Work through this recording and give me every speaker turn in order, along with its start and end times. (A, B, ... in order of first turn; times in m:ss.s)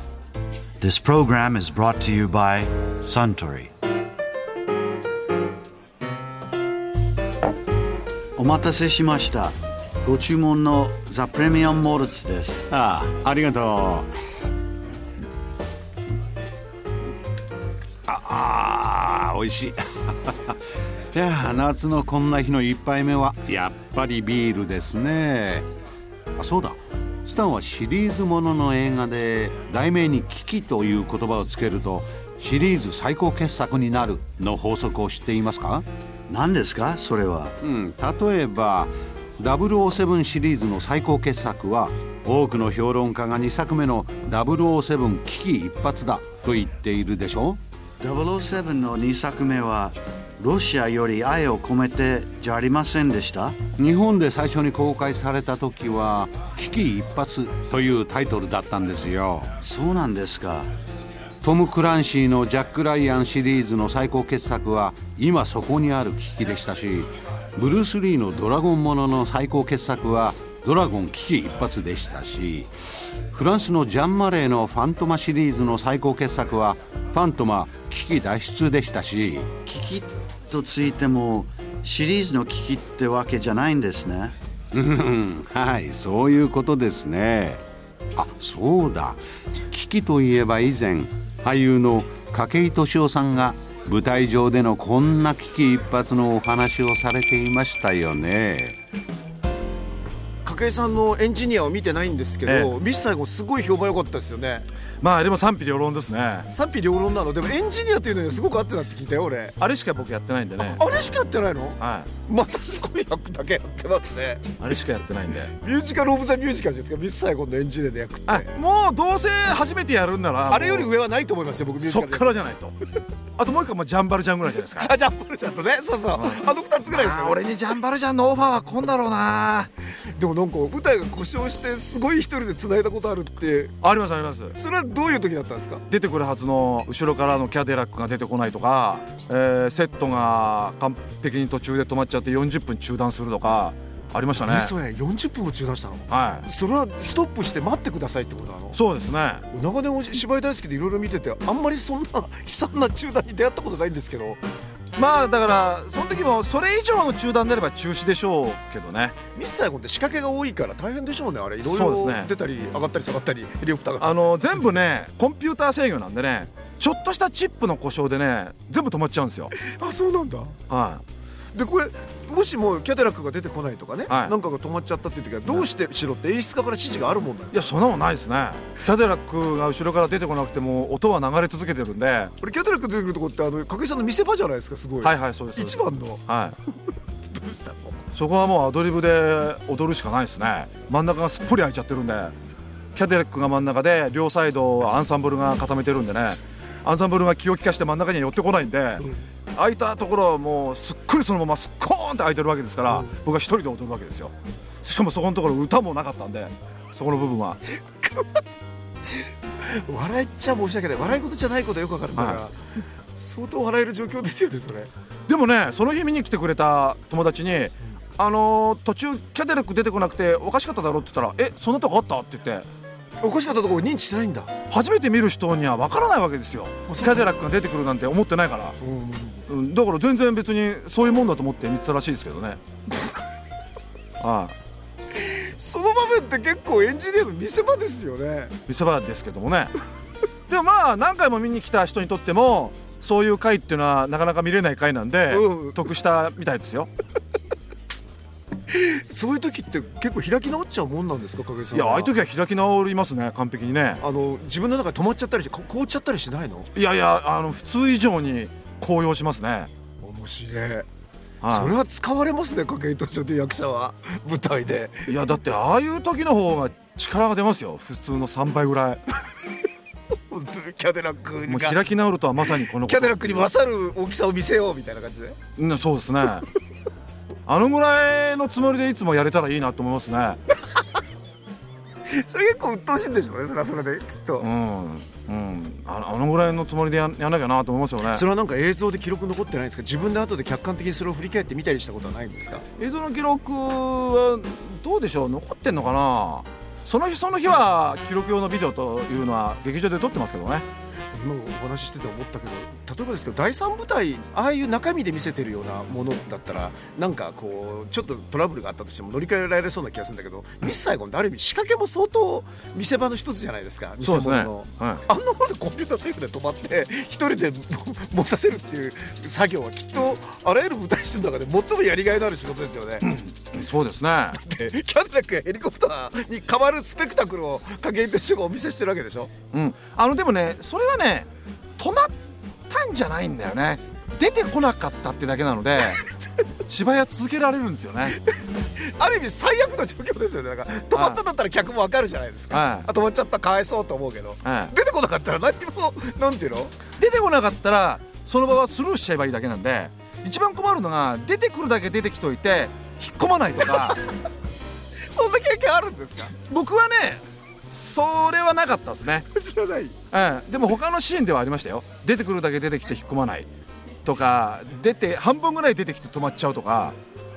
0:00.8-0:03.7 A
0:08.4-0:12.7 A
0:12.7-0:14.1 B
0:18.1-0:20.6 B
0:21.1-0:25.7 B
0:26.4-0:35.9 B
0:36.3-0:37.6 A
0:37.6-0:47.6 B
0:48.0-0:53.6 A
0:53.8-0:59.5 B
0:59.6-1:00.7 A
1:01.4-1:12.7 B
1:13.3-1:19.5 B
1:19.7-1:24.4 A
1:24.7-1:27.6 B
1:28.2-1:38.8 B
1:40.4-1:44.7 C
1:42.4-1:42.7 D
1:45.0-1:46.5 D
1:46.5-1:49.6 C
1:49.6-1:50.8 D
1:50.6-1:54.6 C
1:51.8-1:52.1 D
1:54.6-1:55.5 D
1:55.6-1:58.5 C
1:58.3-2:00.9 D
2:00.5-2:02.4 C
2:01.8-2:02.8 D
2:03.4-2:04.9 D
2:04.8-2:07.4 C
2:06.2-2:09.7 D
2:10.1-2:13.8 C
2:13.8-2:14.6 D
2:14.5-2:15.8 C
2:15.9-2:24.7 D
2:24.3-2:28.8 C
2:26.1-2:26.5 D
2:28.7-2:29.4 D
2:29.5-2:34.4 C
2:35.0-2:39.2 D
2:39.3-2:44.8 C
2:41.6-2:42.3 D
2:44.0-2:49.5 D
2:49.6-2:50.6 C
2:50.7-2:51.0 D
2:51.5-2:57.8 C
2:54.1-2:54.3 D
2:57.5-3:02.3 D
3:02.4-3:06.2 C
3:05.0-3:06.6 D
3:07.3-3:08.0 C
3:08.2-3:12.3 D
3:13.0-3:24.3 D
3:22.9-3:23.1 C
3:24.8-3:27.6 D
3:29.6-3:32.6 C
3:32.2-3:32.4 D
3:33.1-3:34.9 C
3:35.3-3:42.7 D
3:43.2-3:44.5 C
3:44.7-3:48.8 D
3:46.9-3:47.3 C
3:48.8-3:49.5 C
3:49.5-3:52.6 D
3:54.2-3:54.6 D
3:55.1-3:58.6 C
3:58.7-3:59.7 D
4:00.5-4:06.9 D
4:05.3-4:05.8 C
4:08.7-4:12.2 C
4:11.7-4:14.0 D
4:14.0-4:16.7 C
4:16.7-4:19.7 D
4:20.0-4:20.9 C
4:21.4-4:21.8 D
4:21.5-4:25.1 C
4:25.1-4:29.0 D
4:30.3-4:31.8 C
4:31.4-4:33.5 D
4:32.4-4:35.4 C
4:35.6-4:36.4 D
4:37.5-4:40.4 D
4:42.1-4:44.5 C
4:44.4-4:48.2 D
4:48.1-4:52.6 C
4:52.8-5:00.6 D
5:01.1-5:23.1 C
5:14.0-5:15.0 D
5:23.0-5:24.4 D
5:24.3-5:29.3 C
5:29.5-5:32.2 D
5:32.7-5:36.0 D
5:36.7-5:38.2 D
5:38.1-5:46.8 C
5:40.9-5:41.2 D
5:42.5-5:42.9 D
5:44.4-5:44.7 D
5:47.0-5:54.0 D
5:55.1-5:56.3 C
5:56.4-5:59.3 D
5:59.3-6:00.0 C
6:00.1-6:03.5 D
6:04.0-6:07.0 D